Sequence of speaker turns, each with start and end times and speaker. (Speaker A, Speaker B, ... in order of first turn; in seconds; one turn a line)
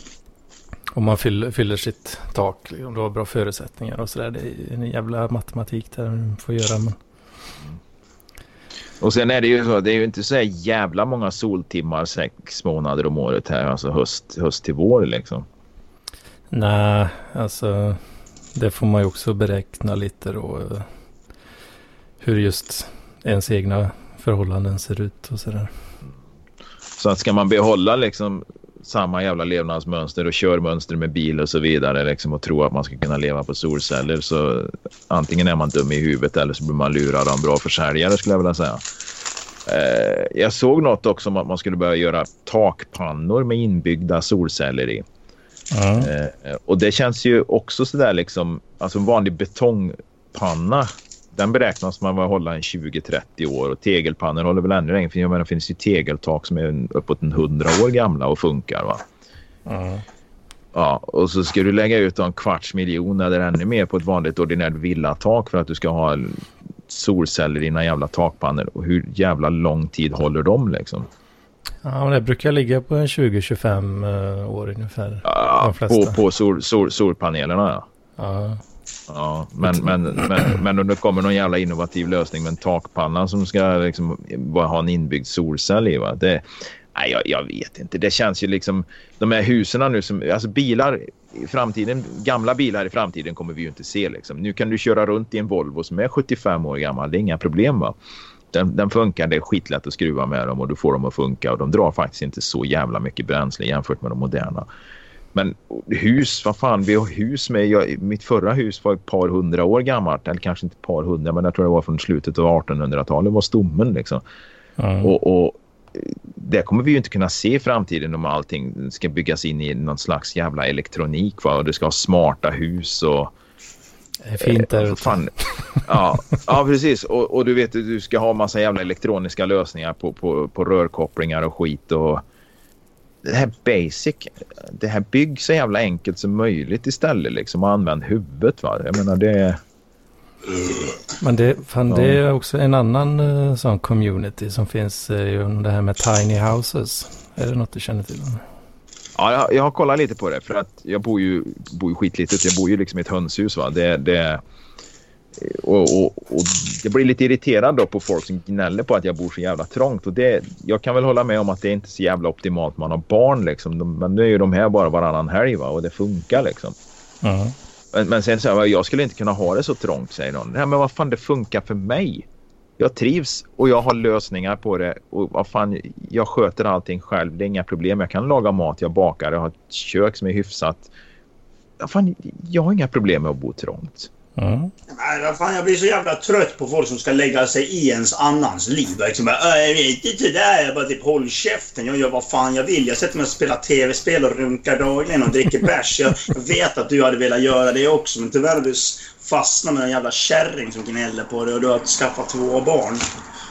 Speaker A: 0.9-7.0
Speaker B: 9.0-15.5
Speaker A: 16.5-18.0
Speaker A: 18.5-20.9
Speaker A: 22.2-25.7
Speaker B: 27.0-38.9
Speaker B: 39.7-45.0
Speaker A: 45.7-46.1
Speaker B: 46.0-59.0
Speaker A: 59.7-60.0
Speaker B: 60.7-71.1
Speaker A: 71.8-76.2
Speaker B: 75.2-77.9
Speaker A: 78.2-78.6
Speaker B: 79.1-97.9
Speaker A: 79.7-80.5
Speaker B: 98.5-104.7
Speaker B: 105.3-114.2
Speaker A: 114.8-115.1
Speaker B: 115.0-123.3
Speaker A: 124.2-125.8
Speaker B: 124.4-125.3
Speaker B: 125.8-132.2
Speaker B: 133.2-139.6
Speaker A: 141.2-148.4
Speaker B: 141.9-142.2
Speaker B: 149.2-154.4
Speaker B: 155.4-166.8
Speaker A: 167.2-167.6
Speaker B: 167.9-172.3
Speaker B: 172.8-180.9
Speaker B: 181.8-184.1
Speaker A: 184.4-184.7
Speaker C: 184.9-203.1